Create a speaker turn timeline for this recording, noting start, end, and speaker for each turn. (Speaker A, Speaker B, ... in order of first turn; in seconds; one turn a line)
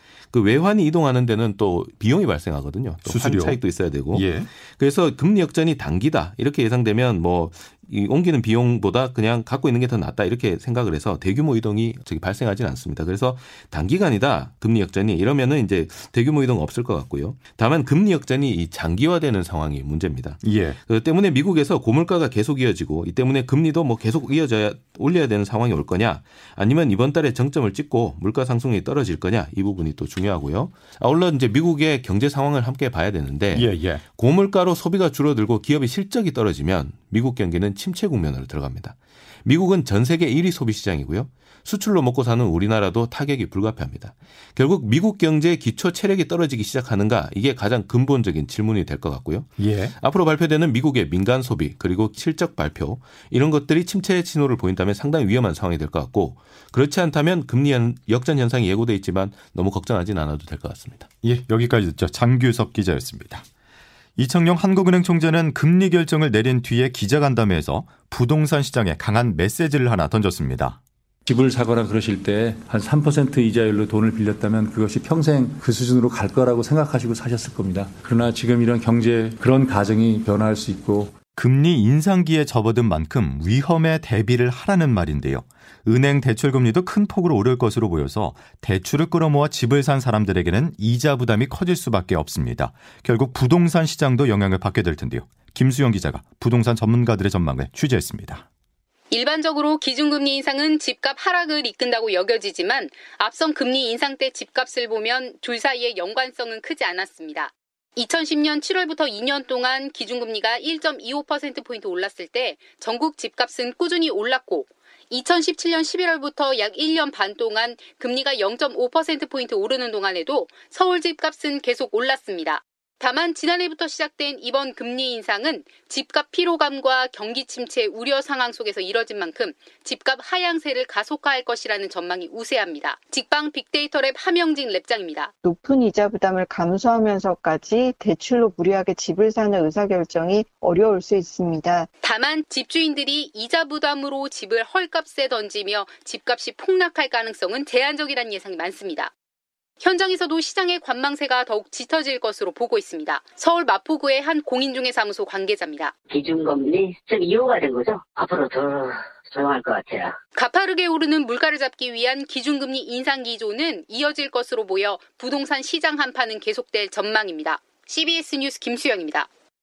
Speaker A: 0.3-61.1
Speaker B: 3.0-3.6
Speaker B: 4.1-4.5
Speaker B: 20.4-20.8
Speaker B: 33.5-34.0
Speaker B: 49.6-49.9
Speaker B: 61.2-63.4
Speaker B: 64.2-70.8
Speaker C: 71.2-81.1
Speaker B: 81.4-98.4
Speaker D: 99.1-135.3
Speaker E: 135.4-141.9
Speaker D: 142.0-149.1
Speaker D: 149.8-155.9
Speaker F: 156.1-160.2
Speaker D: 160.3-169.3